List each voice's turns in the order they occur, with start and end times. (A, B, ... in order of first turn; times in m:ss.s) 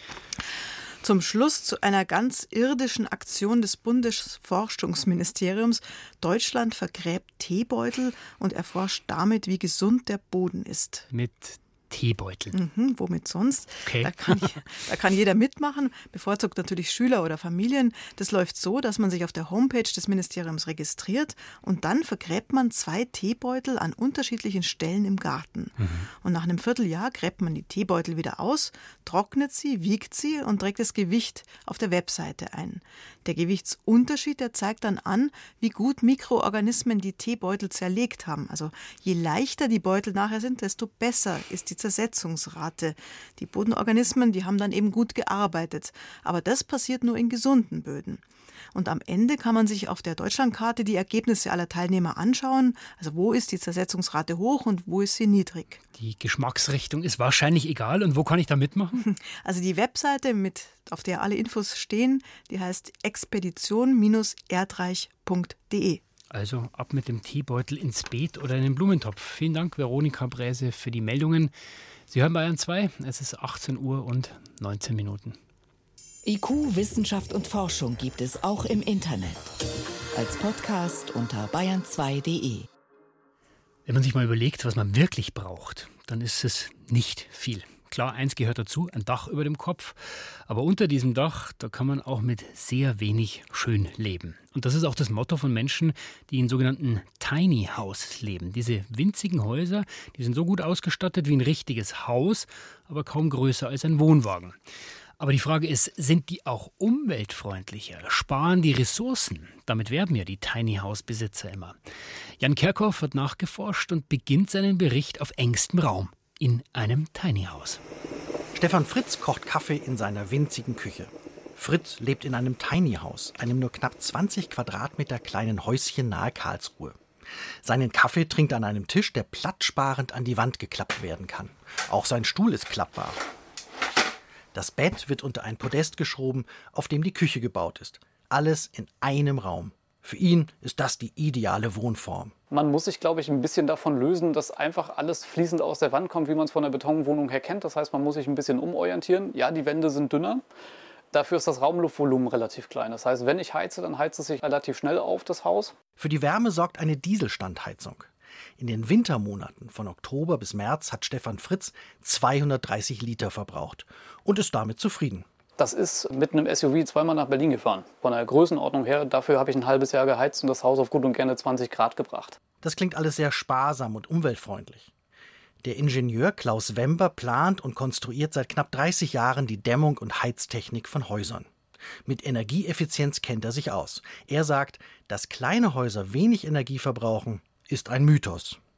0:01.0-0:11.1 A
0:11.1-0:12.6 B
0:12.5-0:55.8 A
0:13.8-0:14.5 B
0:25.8-0:26.1 B
0:56.0-0:59.0 B
0:59.0-1:06.0 A
1:06.3-1:11.5 B
1:12.1-1:15.4 B
1:16.2-1:19.5 C
1:20.2-1:22.7 C
1:23.9-1:44.6 B
1:45.2-1:51.8 B
1:52.4-1:57.8 B
1:58.5-2:07.0 D
2:07.6-2:13.2 D
2:14.5-2:22.3 D
2:22.5-2:30.4 E
2:31.1-2:35.7 E
2:36.0-2:45.3 D
2:45.6-2:52.4 E
2:52.6-2:54.9 D
2:55.6-3:01.5 D
3:02.0-3:08.6 D